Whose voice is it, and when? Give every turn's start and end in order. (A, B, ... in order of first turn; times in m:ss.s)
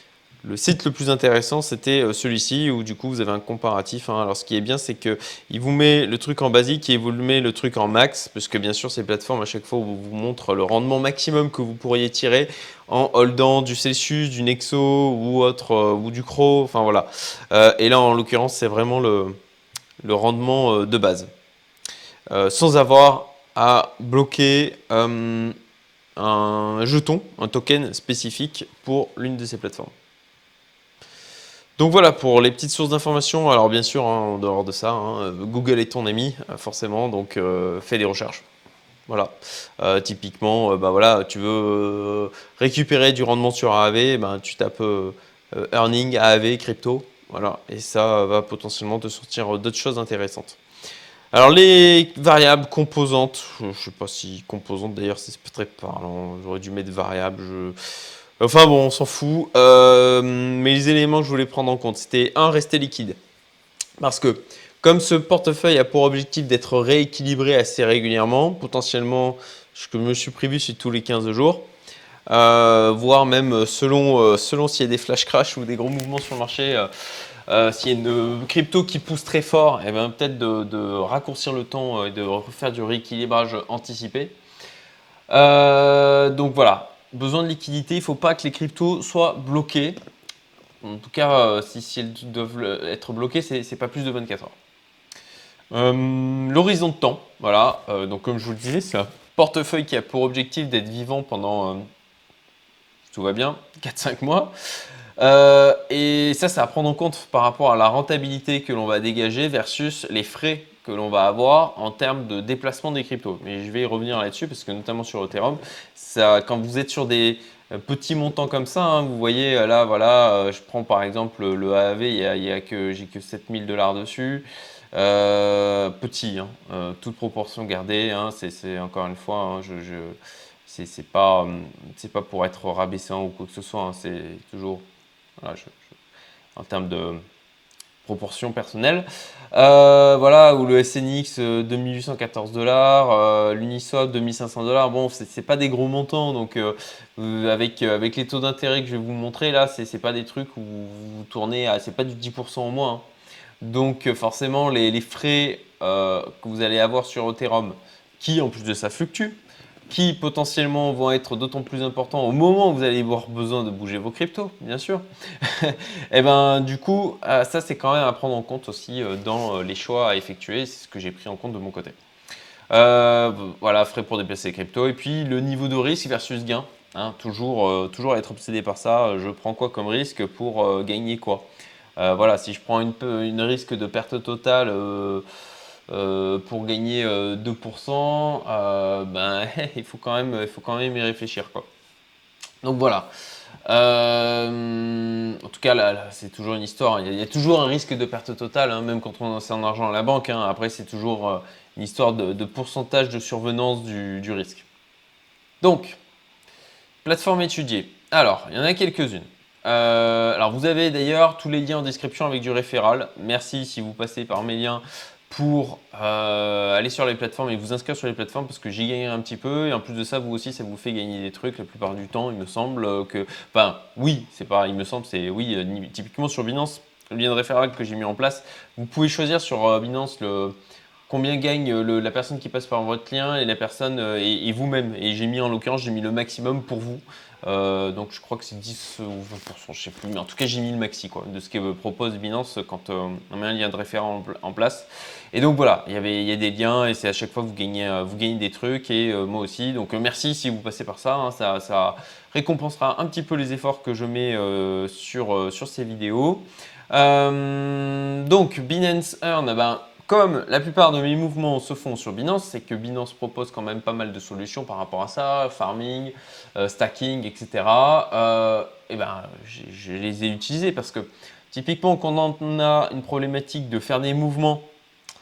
0:00.4-0:19.4 A
0:20.0-0:21.3 A
0:22.3-0:25.5 A
0:26.2-0:29.9 A
0:31.8-0:38.4 A
0:39.1-0:50.6 A
0:51.3-0:57.8 A
0:58.4-1:03.2 A
1:04.0-1:11.6 A
1:12.3-1:16.9 A
1:17.5-1:24.4 A
1:25.3-1:30.0 A
1:30.8-1:34.5 A
1:35.7-1:41.8 A
1:43.1-1:44.5 A
1:45.2-2:14.8 A
2:15.4-2:15.8 A
2:16.5-2:17.2 A
2:18.0-2:33.1 A
2:33.6-2:39.4 A
2:39.9-2:52.0 A
2:52.7-3:05.2 A
3:05.9-3:11.6 A
3:12.6-3:13.1 A
3:13.6-3:24.6 A
3:25.6-3:26.0 A
3:27.0-3:50.6 A
3:51.1-4:34.7 A